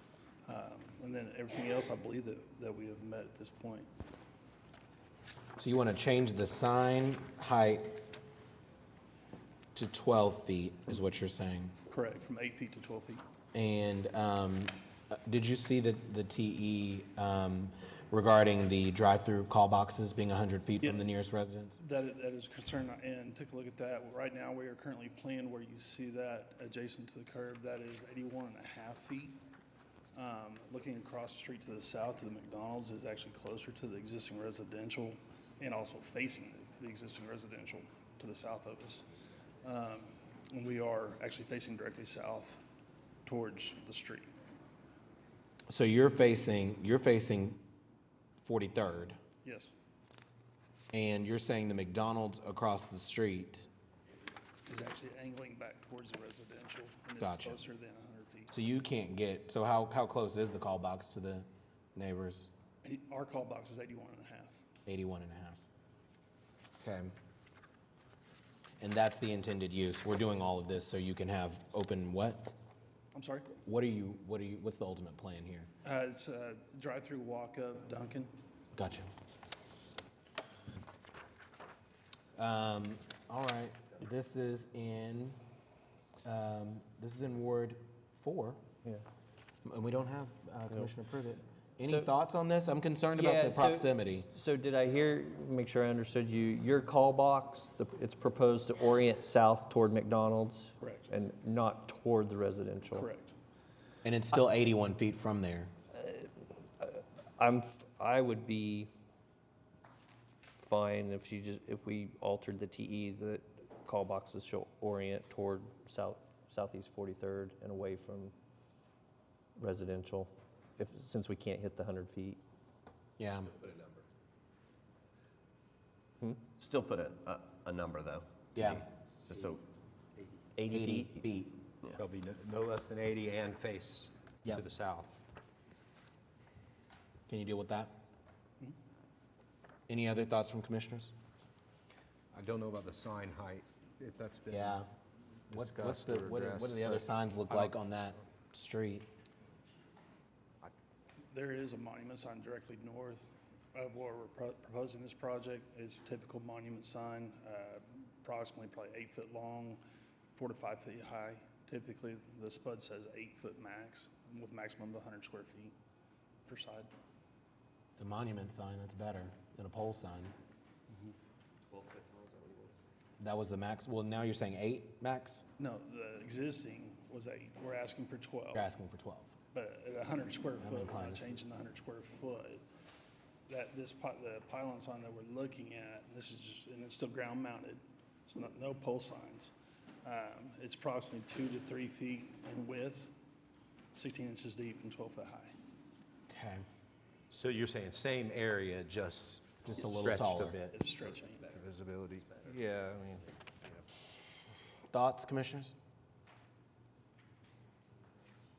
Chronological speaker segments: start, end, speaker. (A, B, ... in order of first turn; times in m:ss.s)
0:00.5-0:03.9 A
0:05.6-0:08.0 B
0:09.7-0:11.7 B
0:11.9-0:13.2 A
0:13.5-0:21.8 B
0:20.8-0:21.1 A
0:21.8-0:29.4 A
0:30.1-0:39.0 A
0:39.6-0:42.6 A
0:43.2-0:44.3 A
0:45.7-0:47.6 B
0:48.4-0:49.2 B
0:49.4-0:49.7 A
0:50.9-0:53.7 B
0:54.7-0:58.5 A
0:57.2-0:57.6 B
0:58.5-1:02.5 B
1:02.8-1:04.6 A
1:04.9-1:05.6 B
1:06.8-1:07.1 B
1:08.8-1:12.5 B
1:13.1-1:13.6 A
1:13.6-1:15.7 B
1:15.8-1:18.3 A
1:18.8-1:19.1 B
1:22.3-1:25.4 B
1:26.2-1:28.6 B
1:29.6-1:34.3 B
1:31.8-1:32.1 C
1:33.2-1:43.1 C
1:40.8-1:41.1 A
1:42.9-1:43.3 A
1:44.0-1:45.7 B
1:45.9-1:48.9 C
1:50.6-1:58.3 C
1:59.6-2:02.4 C
2:03.2-2:03.6 B
2:06.2-2:06.4 C
2:06.6-2:08.2 D
2:08.6-2:08.9 B
2:09.3-2:09.6 D
2:10.6-2:11.2 C
2:10.7-2:11.6 B
2:12.0-2:15.2 E
2:17.3-2:18.0 B
2:19.9-2:21.1 B
2:22.3-2:24.8 E
2:24.5-2:24.9 B
2:25.5-2:27.8 E
2:25.5-2:29.1 B
2:31.3-2:39.8 A
2:40.3-2:45.8 A
2:46.5-2:46.9 A
2:48.0-2:50.3 B
2:53.2-2:55.4 B
2:55.6-2:58.7 A
2:58.5-2:59.3 B
2:59.5-3:02.6 A
3:00.6-3:01.4 B
3:03.5-3:09.5 A
3:10.0-3:13.1 A
3:13.9-3:15.5 A
3:16.3-3:16.6 B
3:17.3-3:23.8 E
3:19.6-3:20.6 B
3:20.7-3:21.5 A
3:24.9-3:25.7 B